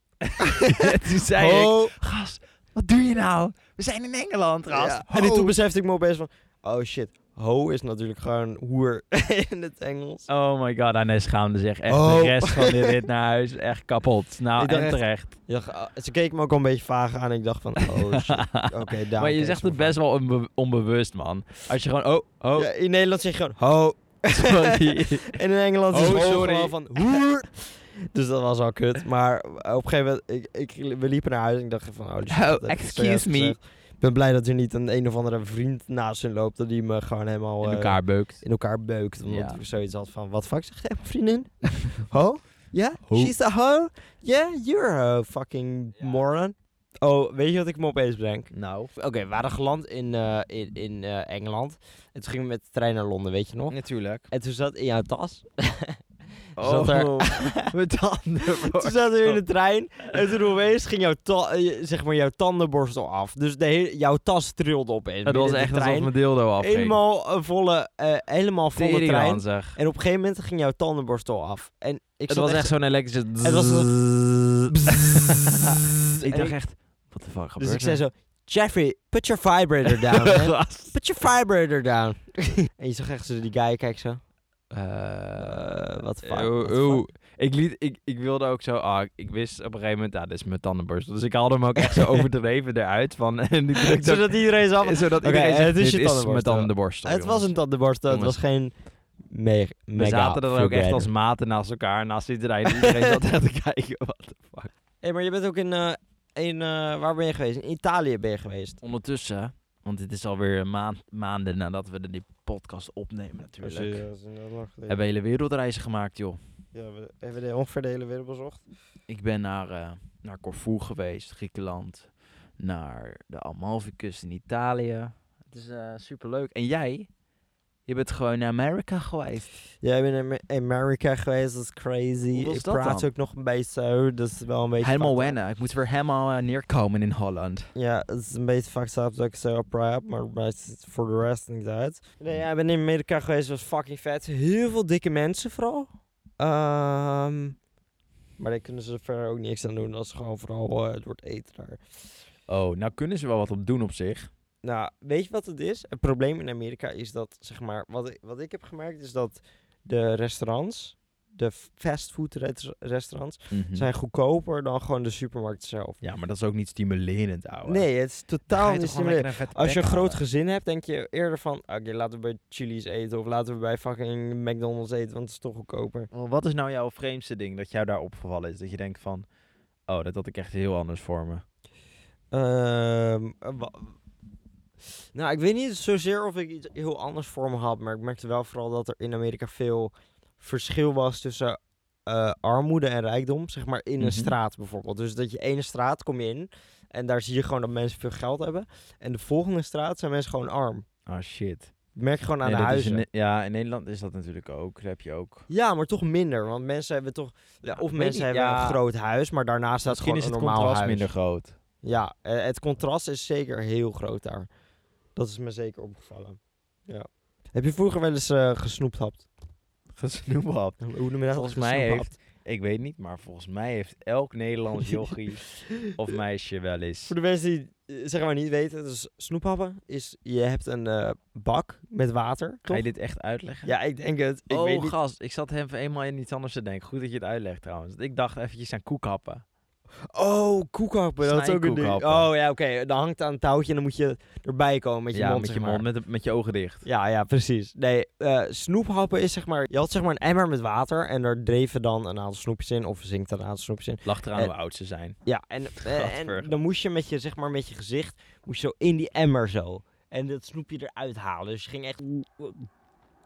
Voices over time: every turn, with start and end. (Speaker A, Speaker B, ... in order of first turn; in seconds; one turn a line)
Speaker A: 0.2-5.5
Speaker B: 0.4-1.9
Speaker B: 4.7-10.3
Speaker A: 10.3-15.4
Speaker B: 11.9-13.0
Speaker B: 14.6-20.0
Speaker A: 17.8-22.7
Speaker B: 22.6-53.8
Speaker A: 24.3-25.4
Speaker A: 25.9-27.2
Speaker A: 32.3-33.5
Speaker A: 37.6-38.4
Speaker A: 39.3-39.6
Speaker A: 43.0-43.3
Speaker A: 48.5-48.9
Speaker A: 53.7-54.3
Speaker B: 54.3-56.0
Speaker B: 56.6-57.7
Speaker A: 56.6-59.4
Speaker B: 58.6-72.7
Speaker A: 65.2-67.0
Speaker A: 68.7-69.8
Speaker A: 72.3-73.9
Speaker B: 73.4-75.7
Speaker A: 74.8-78.0
Speaker B: 76.3-76.6
Speaker B: 77.6-84.2
Speaker A: 79.8-81.0
Speaker A: 84.7-85.7
Speaker B: 85.4-87.0
Speaker A: 86.2-97.5
Speaker B: 91.9-92.2
Speaker B: 93.8-98.7
Speaker A: 98.1-98.4
Speaker B: 99.2-101.1
Speaker A: 100.0-104.7
Speaker B: 102.7-103.1
Speaker B: 105.0-108.8
Speaker A: 108.8-114.0
Speaker B: 113.6-115.0
Speaker A: 114.9-116.4
Speaker B: 116.7-118.6
Speaker A: 119.1-127.1
Speaker A: 127.9-129.5
Speaker B: 129.8-135.4
Speaker A: 132.3-133.1
Speaker A: 134.8-137.7
Speaker B: 137.7-147.6
Speaker B: 148.4-151.8
Speaker A: 152.5-154.3
Speaker B: 154.6-166.0
Speaker A: 163.5-163.9
Speaker A: 166.0-167.9
Speaker B: 167.7-176.1
Speaker A: 168.5-170.2
Speaker A: 176.1-179.2
Speaker A: 179.9-181.4
Speaker B: 182.3-183.9
Speaker B: 185.1-200.8
Speaker A: 194.0-194.3
Speaker A: 201.1-201.7
Speaker B: 201.9-203.0
Speaker A: 202.4-205.5
Speaker B: 205.5-211.1
Speaker A: 207.8-208.8
Speaker A: 209.8-211.5
Speaker B: 211.8-214.5
Speaker B: 215.2-219.3
Speaker A: 220.0-227.1
Speaker B: 220.8-222.2
Speaker B: 227.1-232.8
Speaker A: 232.7-233.7
Speaker B: 233.6-235.0
Speaker A: 234.5-239.4
Speaker B: 240.1-245.8
Speaker A: 241.2-242.3
Speaker A: 245.1-246.8
Speaker B: 246.8-254.5
Speaker A: 254.0-255.2
Speaker B: 255.2-262.7
Speaker A: 255.8-256.5